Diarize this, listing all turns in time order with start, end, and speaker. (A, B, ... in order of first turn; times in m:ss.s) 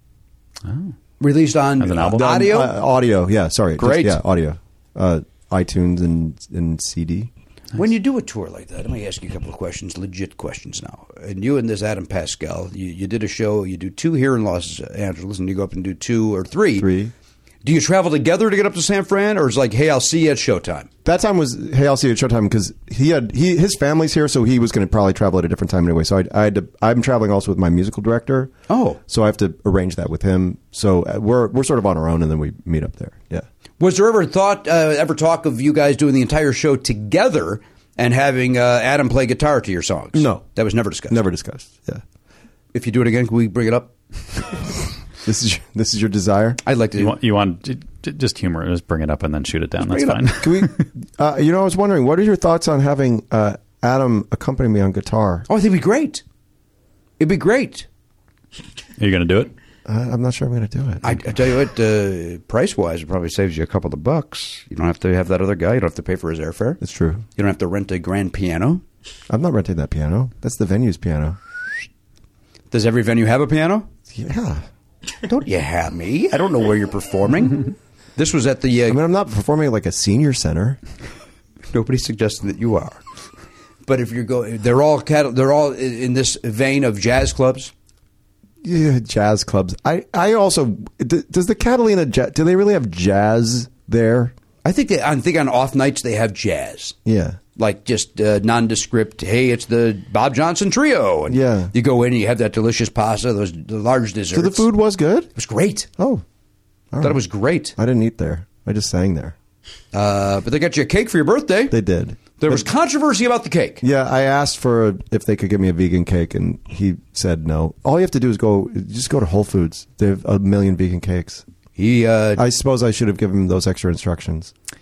0:00.6-0:00.9 A
0:01.2-0:02.7 B
0:01.8-0:02.4 A
0:02.2-0:07.3 C
0:03.8-0:04.2 B
0:07.7-0:16.9 B
0:16.8-0:17.1 C
0:17.6-0:20.9 B
0:21.0-0:28.5 C
0:28.7-0:29.0 B
0:29.0-0:33.4 C
0:33.8-0:41.2 B
0:40.1-0:40.4 C
0:41.1-0:42.0 C
0:42.7-0:43.9 B
0:45.2-0:46.6 C
0:46.6-0:47.2 B
0:47.0-0:50.8 A
0:49.8-0:50.2 B
0:50.4-0:55.5 C
0:55.5-0:56.2 B
0:57.2-0:57.9 B
0:59.0-0:59.5 A
0:59.8-1:01.2 C
1:01.0-1:06.8 B
1:06.8-1:07.2 C
1:07.4-1:08.8 B
1:09.3-1:11.4 C
1:12.7-1:13.9 B
1:14.1-1:14.6 C
1:15.2-1:19.0 B
1:18.9-1:20.8 C
1:21.7-1:23.0 B
1:23.8-1:27.7 B
1:28.6-1:34.3 C
1:34.6-1:37.0 B
1:37.0-1:37.4 C
1:37.6-1:44.7 B
1:41.3-1:41.7 C
1:44.3-1:45.3 C
1:45.3-1:45.9 B
1:46.0-1:46.2 C
1:46.9-1:47.2 C
1:47.0-1:47.7 B
1:47.8-1:49.3 C
1:49.9-1:51.8 B
1:51.7-1:52.6 C
1:52.4-1:53.8 B
1:53.8-2:01.4 C
2:01.8-2:02.4 B
2:02.4-2:04.5 C